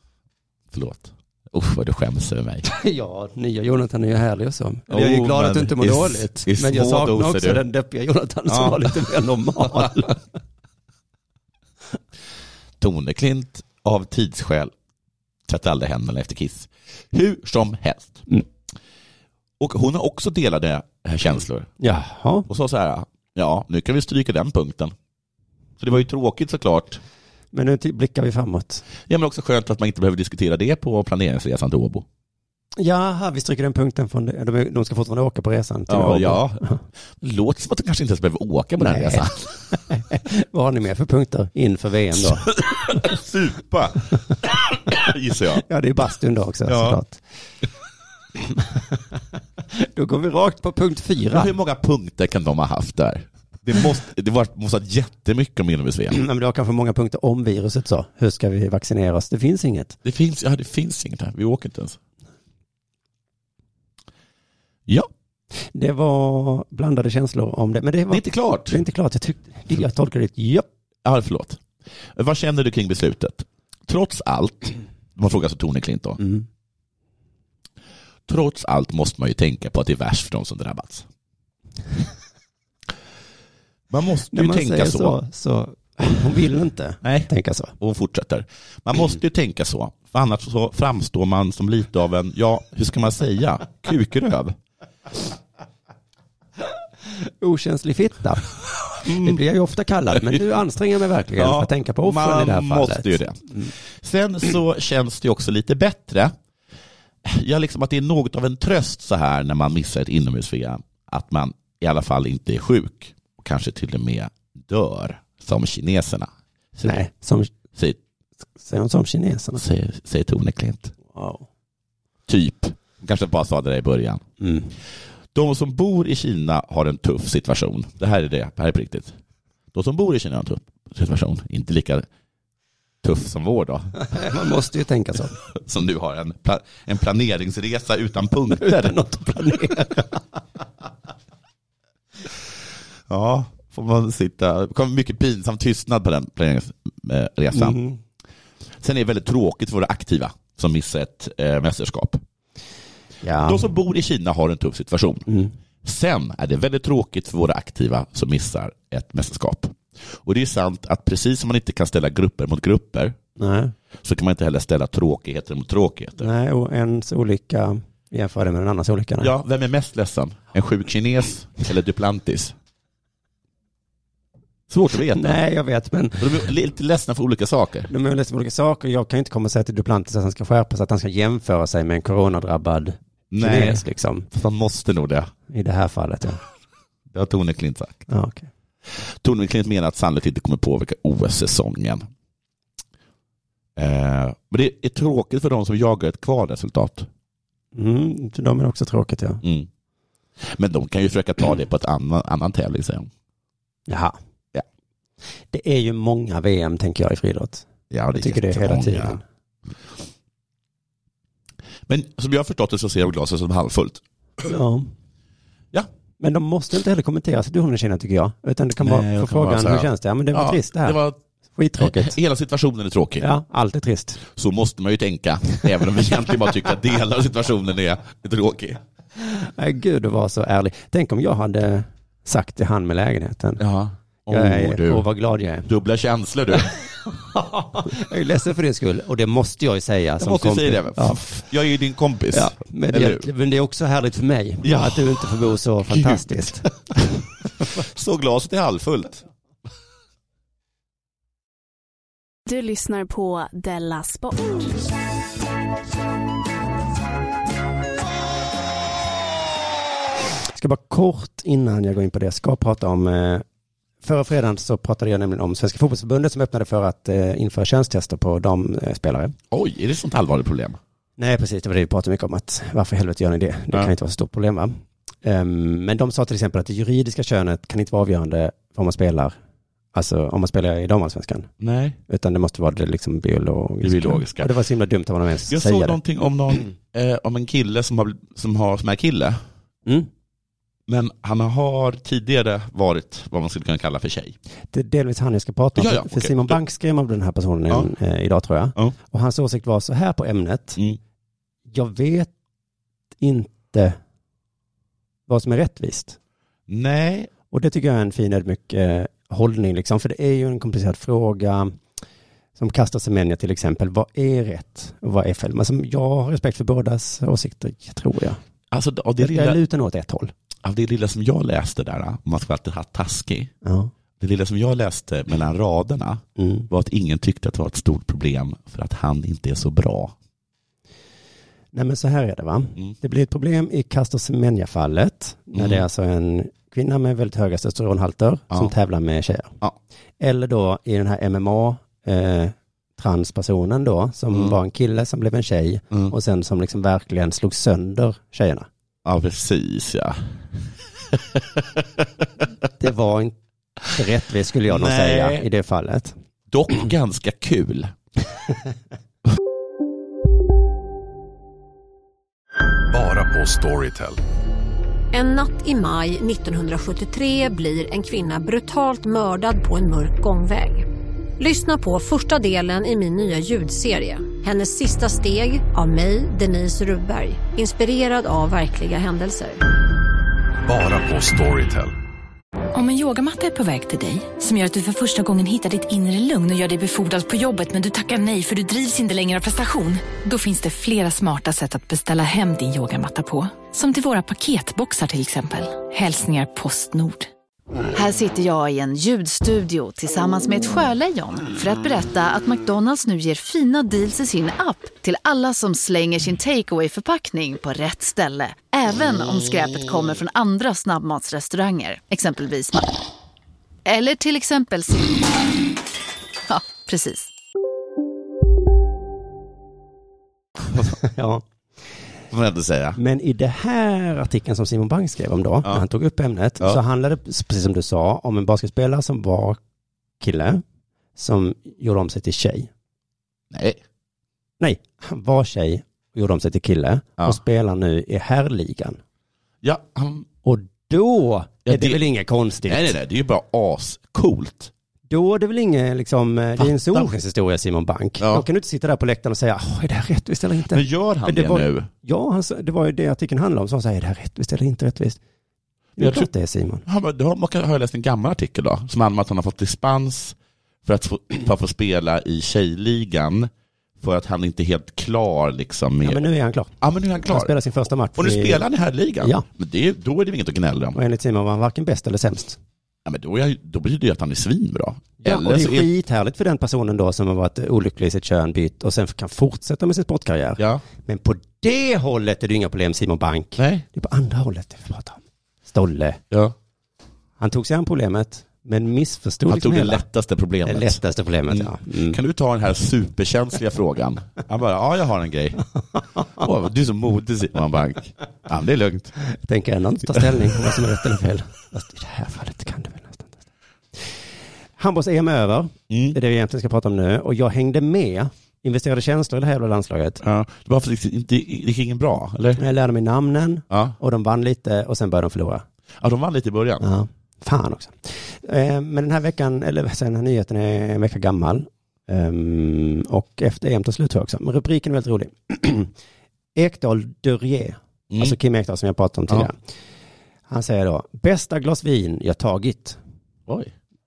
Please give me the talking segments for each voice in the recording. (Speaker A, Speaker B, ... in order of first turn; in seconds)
Speaker A: 0.7-2.6, 4.9-7.6, 8.5-9.0, 9.6-10.0, 12.8-14.7, 15.5-18.2, 19.6-21.7, 22.5-24.9, 25.8-27.0, 29.1-32.0, 35.9-36.6, 37.2-39.5, 42.2-45.6, 46.7-47.0, 51.3-56.2, 60.0-62.0, 68.1-68.8, 71.0-71.6, 72.1-76.2, 78.3-81.1, 83.9-85.2, 87.0-94.6, 99.0-99.4, 101.3-106.3, 107.2-117.0, 119.5-120.9, 122.3-124.2, 125.3-129.1, 129.7-132.1, 133.0-134.0, 135.5-139.0, 143.1-147.8, 148.8-152.2, 153.4-155.2, 155.8-163.2, 164.0-166.3, 169.2-172.5, 174.7-175.4, 176.2-177.9, 183.3-185.3, 187.1-188.1, 188.9-192.1, 193.8-197.1, 199.4-199.7, 200.4-203.1, 207.9-209.2, 211.9-214.0, 218.8-221.2, 221.8-223.3, 224.2-228.8, 233.6-235.1, 235.7-236.8, 240.2-243.3, 244.6-245.2, 245.9-246.4, 247.6-249.2, 269.5-270.8, 281.6-282.0, 283.8-284.5, 285.5-289.4, 290.9-294.4, 295.8-296.6, 306.7-307.3, 318.7-319.6, 320.6-323.5, 324.2-330.1, 335.5-335.8, 349.0-352.2, 354.7-355.5, 356.5-357.9, 422.3-423.0, 433.5-433.8, 439.6-440.3, 441.6-442.0, 442.6-444.7, 446.6-447.1, 448.2-448.4, 450.7-451.9, 456.0-456.3, 456.8-466.3, 466.8-467.5, 468.1-471.0, 473.0-475.9, 480.6-480.8, 483.6-483.8, 489.4-495.6, 496.4-499.1, 505.9-506.2, 510.2-512.6, 513.7-514.0, 516.0-516.8, 528.1-528.4, 533.5-533.7
Speaker B: 2.6-10.2, 21.8-22.5, 27.5-28.8, 32.8-36.8, 38.8-39.3, 39.9-42.5, 45.6-47.2, 49.7-51.5, 56.1-60.0, 65.7-70.7, 76.2-76.4, 84.3-87.7, 97.4-98.4, 99.0-103.7, 116.8-117.5, 118.6-119.6, 121.1-121.4, 124.4-124.7, 134.1-135.3, 138.6-140.2, 147.5-148.0, 153.2-153.7, 155.3-155.5, 163.4-163.7, 166.2-169.3, 175.1-176.4, 177.9-184.3, 185.5-186.4, 188.1-188.5, 197.7-199.4, 203.9-204.2, 205.5-207.6, 208.2-209.2, 214.4-214.9, 216.2-221.0, 221.6-222.2, 223.2-224.2, 229.2-233.6, 234.3-235.7, 237.3-241.4, 242.3-246.7, 260.5-263.4, 264.0-269.3, 271.2-279.4, 279.9-281.5, 282.1-286.0, 294.7-300.8, 301.7-302.3, 303.2-304.0, 305.3-306.2, 307.5-311.8, 312.6-318.4, 319.2-320.3, 323.6-323.9, 326.4-326.7, 331.7-339.5, 340.2-348.7, 352.8-353.4, 353.9-356.1, 420.8-421.4, 422.9-429.6, 430.2-430.6, 431.1-432.7, 434.6-439.0, 440.4-442.9, 445.1-455.2, 456.0-456.8, 466.0-468.6, 470.9-472.6, 475.2-486.2, 487.4-490.0, 490.6-492.2, 499.2-503.4, 504.8-510.2, 512.6-515.6, 516.8-525.9, 526.5-529.5, 530.5-533.0
Speaker C: 252.5-254.8
Speaker D: 362.9-364.2, 380.6-381.9
Speaker E: 365.1-370.9, 371.4-379.6
Speaker F: 382.7-397.3
Speaker G: 397.9-412.9, 413.9-415.3, 416.5-417.3